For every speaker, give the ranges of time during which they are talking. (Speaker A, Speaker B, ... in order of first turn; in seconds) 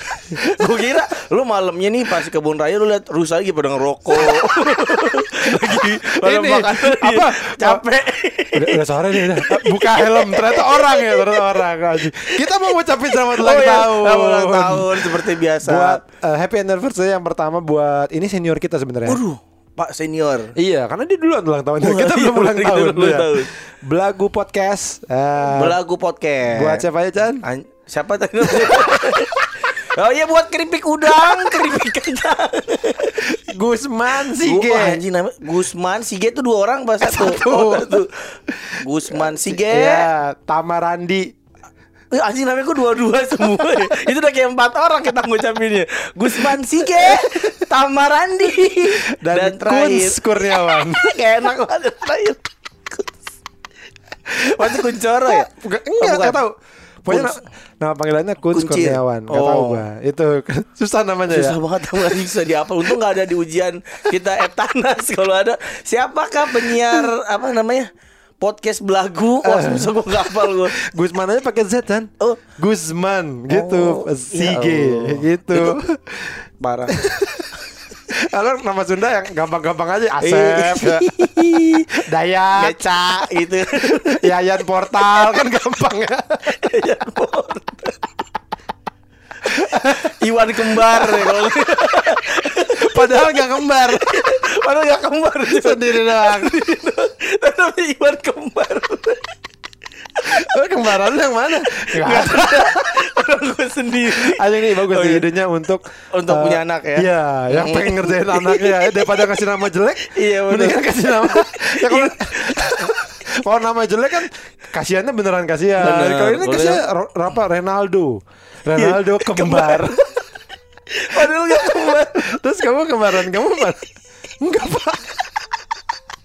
Speaker A: 0.3-16.0, 19.1-20.8, 21.8-23.5, 25.4-26.9, 27.4-38.1, 38.8-40.1, 42.1-52.5, 54.3-56.4, 57.1-57.4, 58.4-59.9, 61.2-67.9, 68.4-70.7, 73.5-75.8, 80.2-81.8, 82.5-84.3, 84.9-87.9, 89.5-99.3, 100.5-105.3, 106.1-113.0, 115.8-116.8, 118.7-120.2, 121.0-122.4, 123.1-123.7
Speaker B: 5.5-7.8, 8.5-19.2, 20.6-25.8, 26.5-27.4, 34.1-35.0, 37.0-38.0, 39.1-41.3, 46.4-47.2, 49.0-51.0, 55.4-56.5, 57.0-61.5, 69.4-69.9, 70.6-77.0, 78.2-81.0, 82.0-82.8, 84.2-86.4, 90.9-91.3, 92.8-94.2, 95.5-96.6, 100.5-102.8, 104.1-120.0, 122.2-123.8, 124.4-125.1